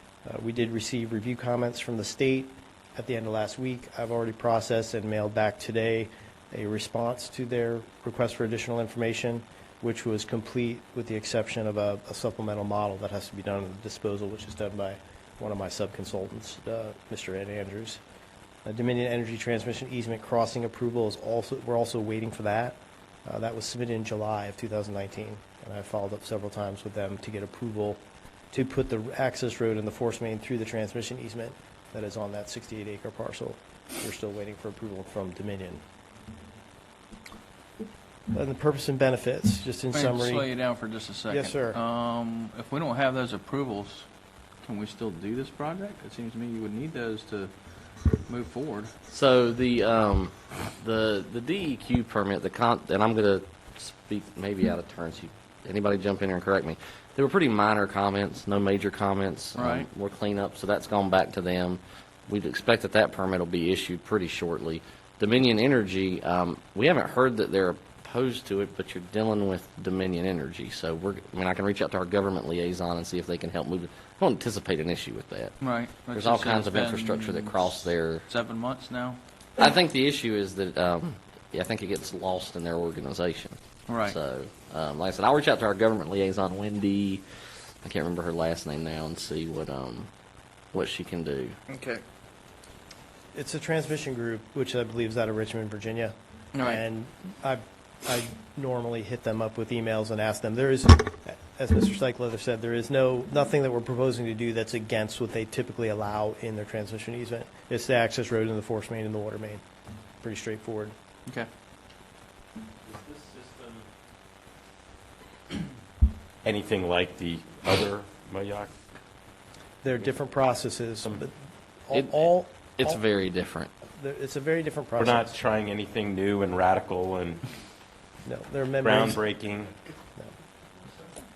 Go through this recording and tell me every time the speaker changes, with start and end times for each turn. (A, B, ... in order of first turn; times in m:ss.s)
0:00.2-0:18.0 A
0:18.6-0:28.0 A
0:28.5-0:35.8 A
0:38.3-0:40.5 A
0:39.9-0:44.1 B
0:41.3-0:41.8 A
0:44.6-0:48.9 B
0:49.1-1:15.5 C
0:59.5-0:59.9 B
1:15.6-1:19.2 B
1:16.1-1:18.2 C
1:19.6-1:27.2 C
1:23.9-1:24.2 B
1:27.8-1:30.1 C
1:30.7-1:31.6 C
1:31.7-1:32.0 B
1:33.3-1:49.6 A
1:36.5-1:36.8 B
1:50.2-1:50.9 A
1:52.8-1:53.8 D
1:56.4-1:58.7 D
1:59.8-2:03.0 A
2:01.9-2:03.7 C
2:04.0-2:05.3 A
2:05.0-2:07.4 D
2:08.2-2:09.2 A
2:08.8-2:09.7 D
2:10.8-2:11.1 C